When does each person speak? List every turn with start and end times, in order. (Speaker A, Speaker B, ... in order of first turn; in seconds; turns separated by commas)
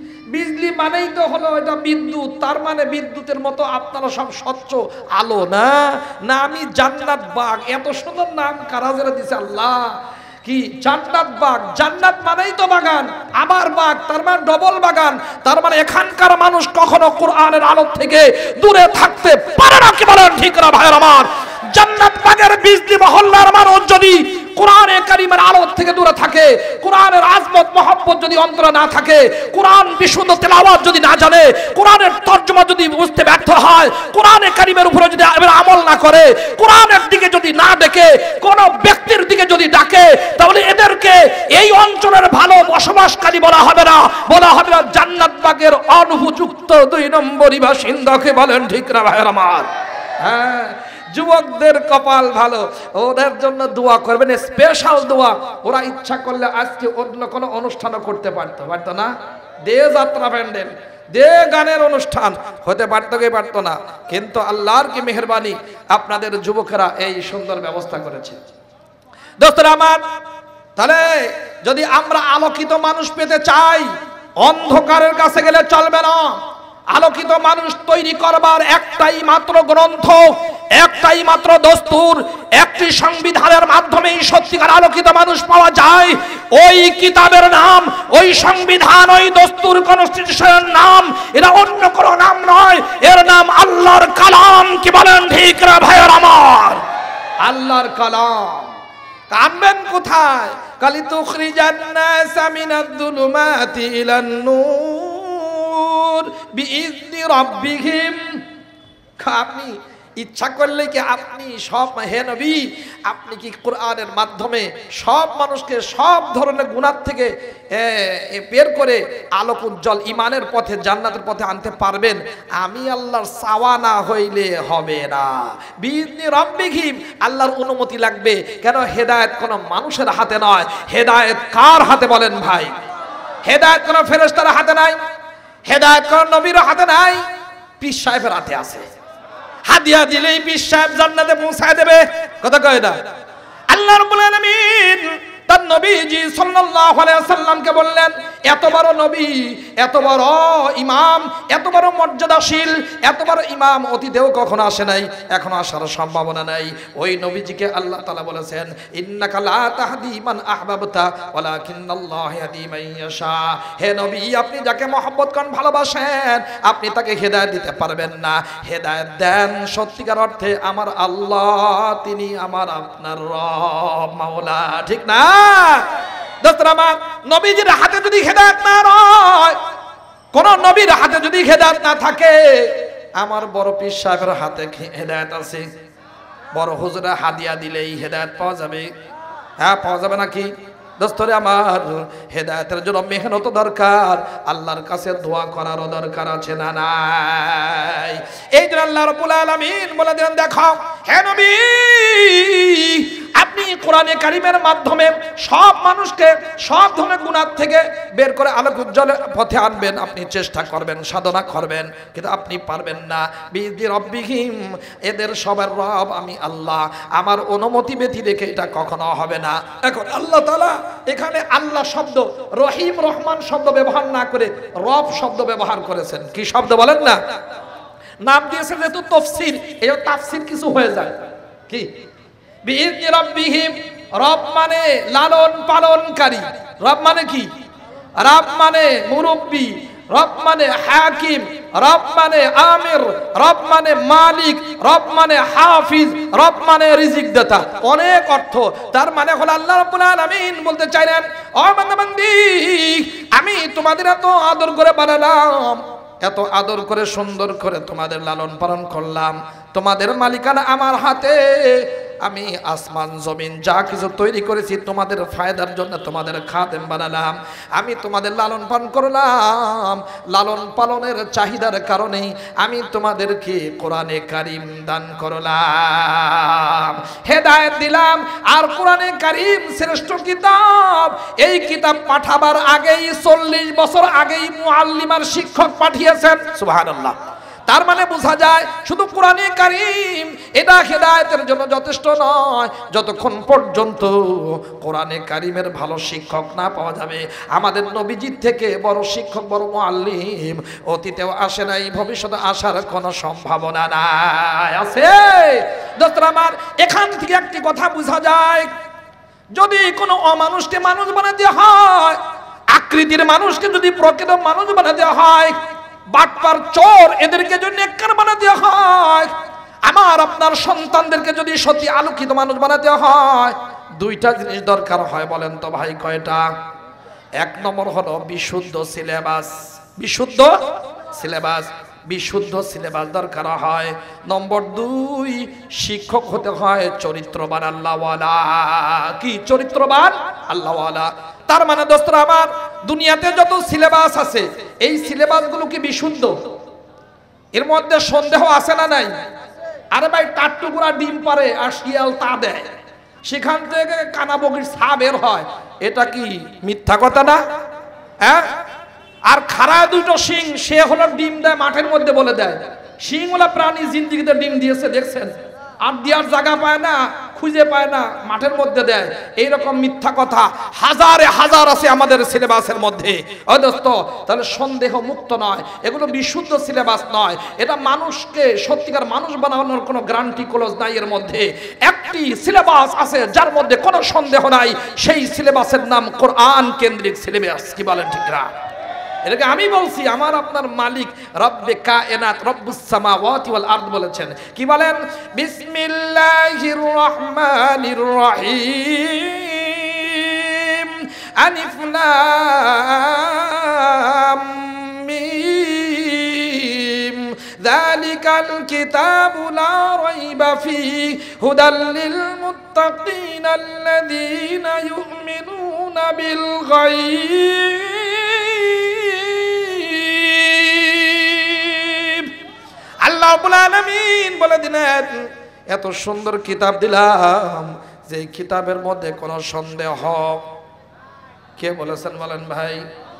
Speaker A: 0.3-49.7, Speaker A: 50.2-59.1, Speaker A: 59.6-68.4, Speaker A: 69.4-70.0, Speaker A: 70.8-73.9, Speaker A: 74.4-76.4, Speaker A: 76.9-96.8, Speaker A: 97.4-98.7, Speaker A: 99.3-108.4, Speaker A: 109.2-132.7, Speaker A: 133.4-135.0, Speaker A: 135.7-137.2, Speaker A: 137.8-138.8, Speaker A: 139.7-143.0, Speaker A: 143.7-175.9, Speaker A: 176.4-179.6, Speaker A: 180.3-185.6, Speaker A: 186.5-188.9, Speaker A: 189.6-227.2, Speaker A: 228.2-231.9, Speaker A: 232.6-237.5, Speaker A: 238.2-287.2, Speaker A: 287.7-308.7, Speaker A: 309.5-312.2, Speaker A: 312.7-315.6, Speaker A: 316.1-319.3, Speaker A: 319.9-326.5, Speaker A: 327.4-330.5, Speaker A: 331.1-346.4, Speaker A: 347.5-349.1, Speaker A: 349.9-352.7, Speaker A: 353.2-357.4, Speaker A: 358.2-358.5, Speaker A: 359.3-365.3, Speaker A: 365.8-388.5, Speaker A: 389.2-422.3, Speaker A: 423.0-430.4, Speaker A: 431.6-432.8